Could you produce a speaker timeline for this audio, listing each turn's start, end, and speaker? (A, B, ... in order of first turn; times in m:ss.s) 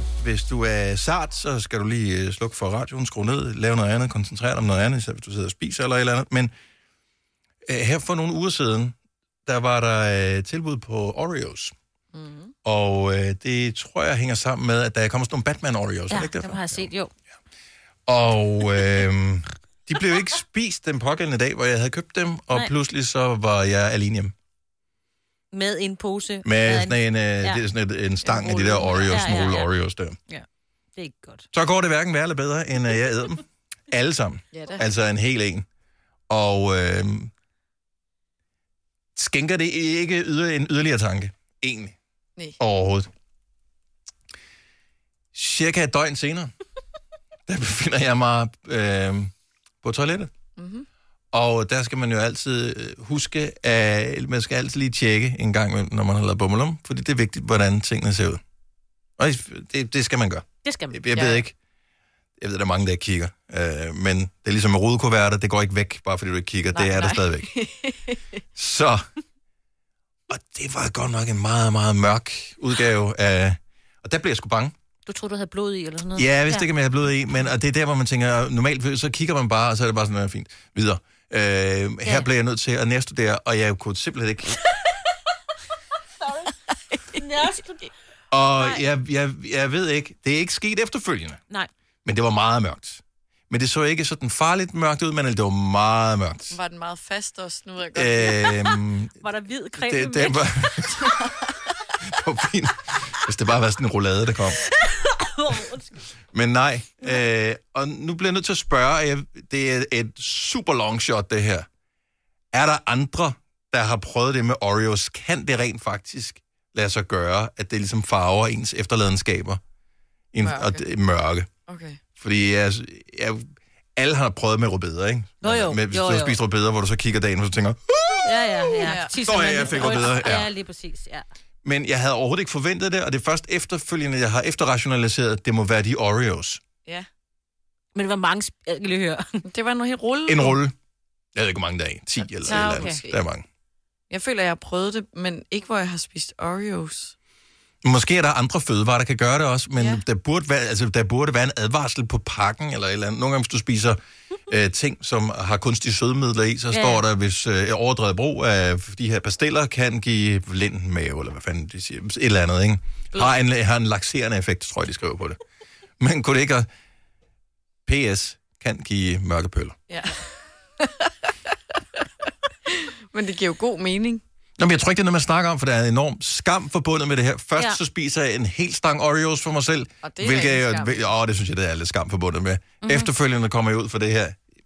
0:00.2-0:06.5 A
0:07.6-0:09.0 A
0:09.5-0:11.7 A
0:12.1-0:12.5 B
0:12.6-0:16.9 A
0:16.1-0:17.1 C
0:18.1-0:24.3 A
0:25.5-0:27.6 C
0:26.4-0:30.2 A
0:28.3-0:29.7 C
0:28.4-0:29.0 B
0:30.3-0:31.5 C
0:31.5-0:35.6 A
0:34.5-0:34.8 B
0:36.3-0:37.3 A
0:39.2-0:42.0 A
0:42.6-0:43.1 A
0:45.3-0:46.5 A
0:47.5-0:50.3 A
0:50.6-0:50.9 B
0:51.3-0:58.4 A
0:59.2-1:01.5 A
1:00.6-1:01.0 C
1:01.1-1:01.4 B
1:02.4-1:07.5 A
1:06.7-1:08.2 B
1:08.6-1:09.0 A
1:10.3-1:14.7 A
1:15.1-1:16.7 C
1:16.2-1:24.7 A
1:26.7-1:27.2 B
1:27.1-1:27.9 C
1:28.3-1:31.4 A
1:32.0-1:36.6 A
1:36.5-1:38.5 B
1:37.9-1:39.2 A
1:38.7-1:40.9 C
1:39.8-1:41.1 A
1:42.0-1:44.6 A
1:44.6-1:46.0 C
1:46.3-1:51.7 A
1:52.5-1:59.6 A
2:00.3-2:01.5 A
2:00.4-2:00.8 B
2:01.7-2:02.0 B
2:02.2-2:10.5 A
2:05.4-2:06.4 C
2:08.2-2:11.2 C
2:08.8-2:09.3 B
2:11.6-2:16.6 A
2:18.0-2:19.5 C
2:19.5-2:20.6 B
2:20.3-2:20.8 A
2:21.4-2:23.4 A
2:22.4-2:23.2 B
2:22.5-2:23.0 C
2:24.1-2:27.2 B
2:27.8-2:45.4 A
2:29.8-2:30.0 B
2:36.7-2:37.0 C
2:46.0-2:46.7 A
2:47.9-2:49.8 A
2:49.9-2:54.2 B
2:54.6-3:04.4 A
3:00.0-3:01.1 B
3:02.8-3:03.1 C